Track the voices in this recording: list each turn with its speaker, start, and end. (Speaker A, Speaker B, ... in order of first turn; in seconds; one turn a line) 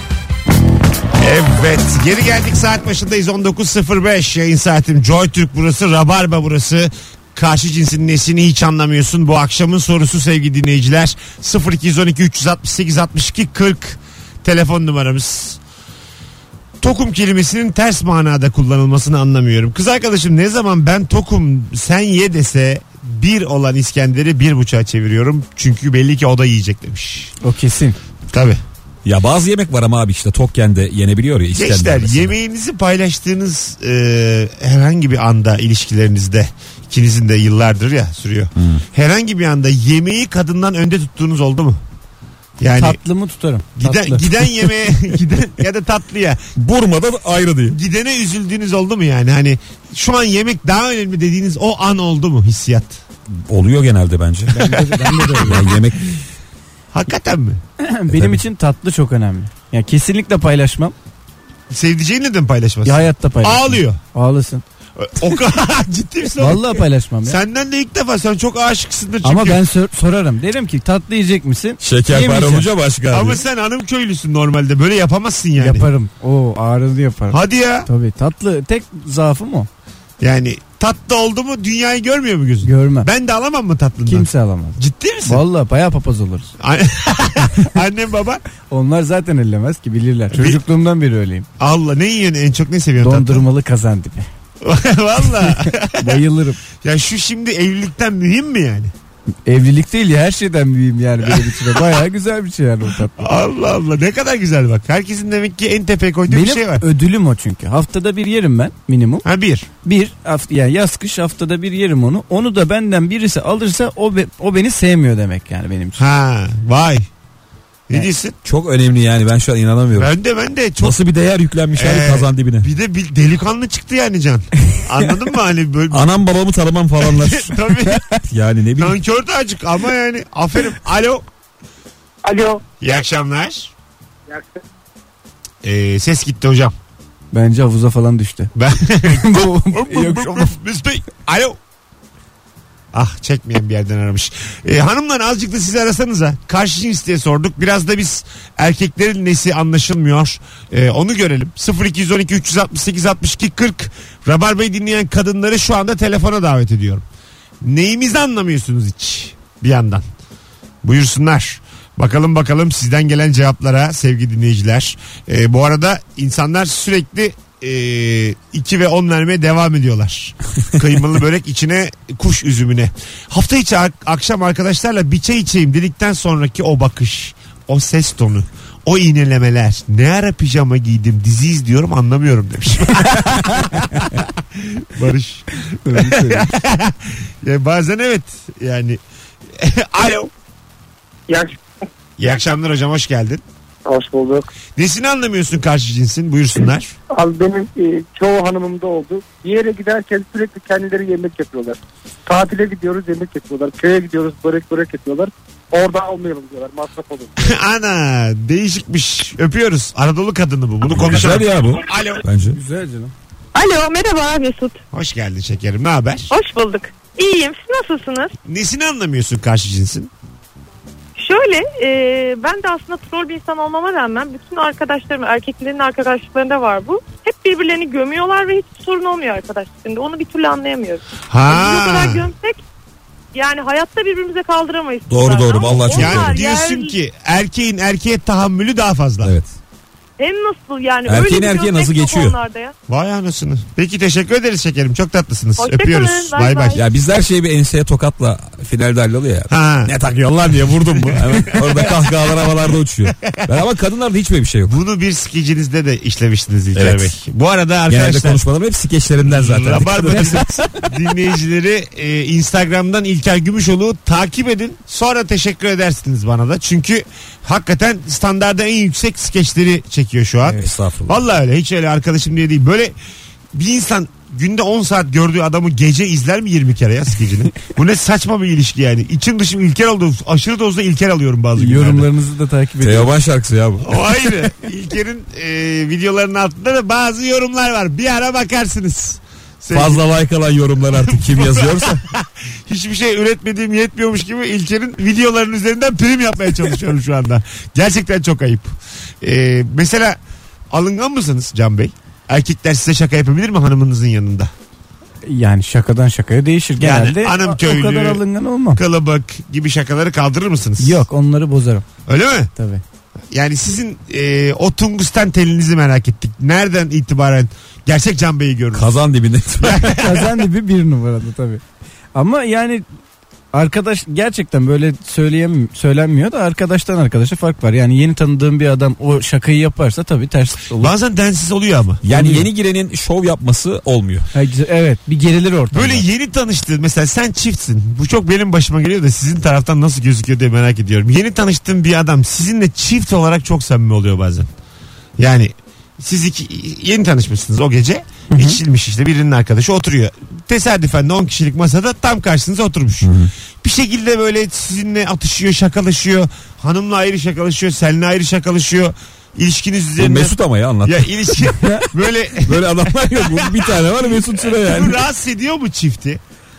Speaker A: 1.2-15.6
Speaker A: 16.8-27.3
Speaker B: 27.4-28.0
Speaker A: 28.3-28.6
Speaker C: 29.1-32.3
Speaker A: 31.6-41.8
Speaker C: 38.6-38.8
Speaker A: 42.6-43.0
Speaker B: 42.7-44.6
Speaker A: 43.8-46.4
Speaker C: 46.6-47.8
Speaker A: 47.7-53.0
Speaker C: 53.4-54.7
Speaker B: 54.5-55.7
Speaker A: 55.2-55.8
Speaker C: 55.4-56.2
Speaker A: 56.9-57.6
Speaker B: 57.8-61.0
Speaker C: 58.1-58.4
Speaker A: 61.7-64.0
Speaker B: 62.9-64.6
Speaker A: 65.0-69.6
Speaker B: 66.4-67.4
Speaker B: 69.2-72.7
Speaker C: 71.8-73.4
Speaker A: 73.1-75.9
Speaker B: 75.6-79.7
Speaker A: 77.3-77.9
Speaker A: 80.2-85.4
Speaker B: 82.6-83.1
Speaker B: 84.1-86.5
Speaker A: 86.6-88.4
Speaker B: 88.7-91.5
Speaker A: 90.3-90.6
Speaker A: 91.6-93.5
Speaker B: 93.0-94.3
Speaker A: 94.6-96.2
Speaker B: 95.4-96.6
Speaker A: 96.8-98.9
Speaker B: 99.5-103.3
Speaker A: 101.2-102.0
Speaker A: 103.2-106.8
Speaker B: 106.3-109.2
Speaker A: 109.2-109.7
Speaker B: 109.8-116.0
Speaker A: 116.0-117.1
Speaker A: 117.9-118.3
Speaker C: 118.5-120.1
Speaker A: 120.0-121.0
Speaker C: 120.8-122.7
Speaker A: 121.8-126.1
Speaker C: 125.9-129.0
Speaker A: 127.0-128.0
Speaker A: 128.8-131.2
Speaker D: 132.2-132.6
Speaker A: 132.8-133.7
Speaker D: 134.3-134.6
Speaker A: 135.6-136.7
Speaker B: 137.3-138.5
Speaker A: 138.6-141.6
Speaker B: 139.0-140.6
Speaker A: 142.9-157.1
Speaker A: 157.6-160.0
Speaker A: 160.8-189.0
Speaker B: 183.1-184.1
Speaker B: 185.8-186.5
Speaker A: 189.6-190.3
Speaker D: 191.3-191.6
Speaker A: 192.2-193.4
Speaker D: 193.9-194.5
Speaker A: 194.8-196.9
Speaker D: 197.1-207.5
Speaker A: 207.4-212.3
Speaker C: 210.9-212.6
Speaker B: 212.5-213.1
Speaker E: 213.6-214.8
Speaker A: 214.9-216.3
Speaker E: 216.3-218.3
Speaker A: 218.4-220.1
Speaker E: 221.2-232.6
Speaker A: 231.3-232.3
Speaker E: 233.3-236.9
Speaker C: 235.1-236.4
Speaker A: 235.7-239.3
Speaker C: 239.2-239.5
Speaker E: 240.2-242.7
Speaker C: 241.1-242.4
Speaker A: 242.9-246.8
Speaker E: 245.6-246.8
Speaker C: 246.7-254.7
Speaker A: 249.5-249.9
Speaker A: 250.7-253.6
Speaker A: 254.7-258.4
Speaker C: 256.7-257.1
Speaker C: 257.9-260.4
Speaker A: 259.3-272.9
Speaker C: 270.5-271.2
Speaker A: 273.5-282.1
Speaker B: 281.6-283.1
Speaker C: 282.8-284.0
Speaker A: 283.8-290.0
Speaker C: 289.7-292.0
Speaker A: 290.8-300.2
Speaker A: 300.7-304.5
Speaker B: 305.3-308.8
Speaker A: 306.8-308.2
Speaker A: 308.7-311.0
Speaker B: 310.8-311.9
Speaker A: 312.1-312.5
Speaker B: 312.6-312.8
Speaker A: 313.3-318.9
Speaker C: 318.7-320.0
Speaker A: 319.6-320.4
Speaker B: 320.0-321.6
Speaker B: 322.1-322.9
Speaker B: 323.5-330.9
Speaker A: 330.8-332.0
Speaker C: 332.0-334.3
Speaker B: 332.1-332.5
Speaker B: 334.3-336.1
Speaker A: 335.7-344.5
Speaker A: 345.2-366.2
Speaker B: 348.3-348.6
Speaker C: 353.0-353.3
Speaker C: 360.0-361.1
Speaker B: 361.6-361.9
Speaker C: 362.4-365.0